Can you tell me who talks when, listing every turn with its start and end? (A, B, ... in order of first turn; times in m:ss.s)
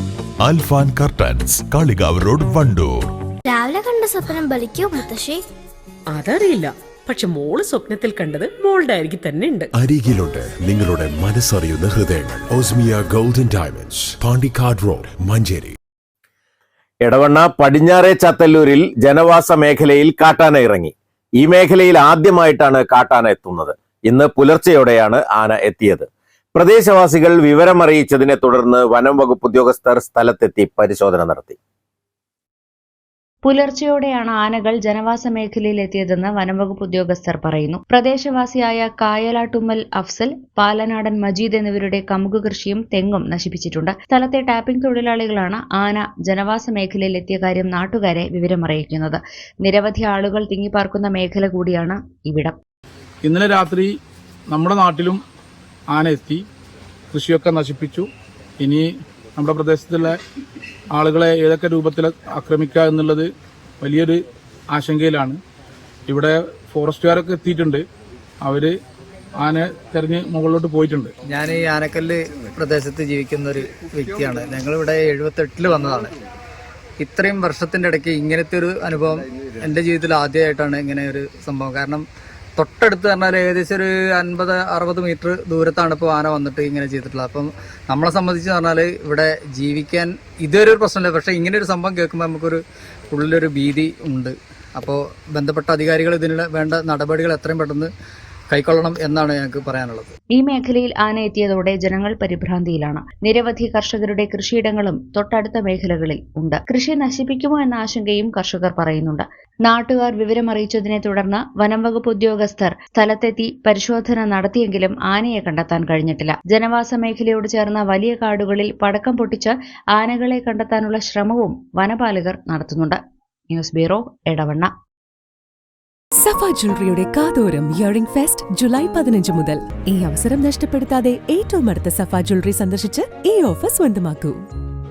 0:00.4-0:03.1 A
0:03.5-0:05.4 B
0:06.1-0:09.7 C
0:09.7-0:15.8 D
0:17.0-0:31.6 E
0:33.4-0:52.6 F
0:53.2-0:53.9 G
0:54.5-0:55.2 G
0:55.9-0:56.4 G
0:57.1-0:58.1 G
0:58.6-1:00.2 G
1:00.9-1:03.3 G
1:03.8-1:04.2 G
1:04.7-1:05.4 G
1:06.1-1:07.8 G
1:08.4-1:08.7 G
1:09.4-1:11.1 G
1:11.3-1:16.1 H
1:17.0-1:22.0 H
1:22.6-1:32.6 H
1:33.1-1:37.9 H
1:38.5-1:40.1 H
1:40.4-2:03.0 F
2:03.5-2:04.7 F
2:06.2-2:14.4 I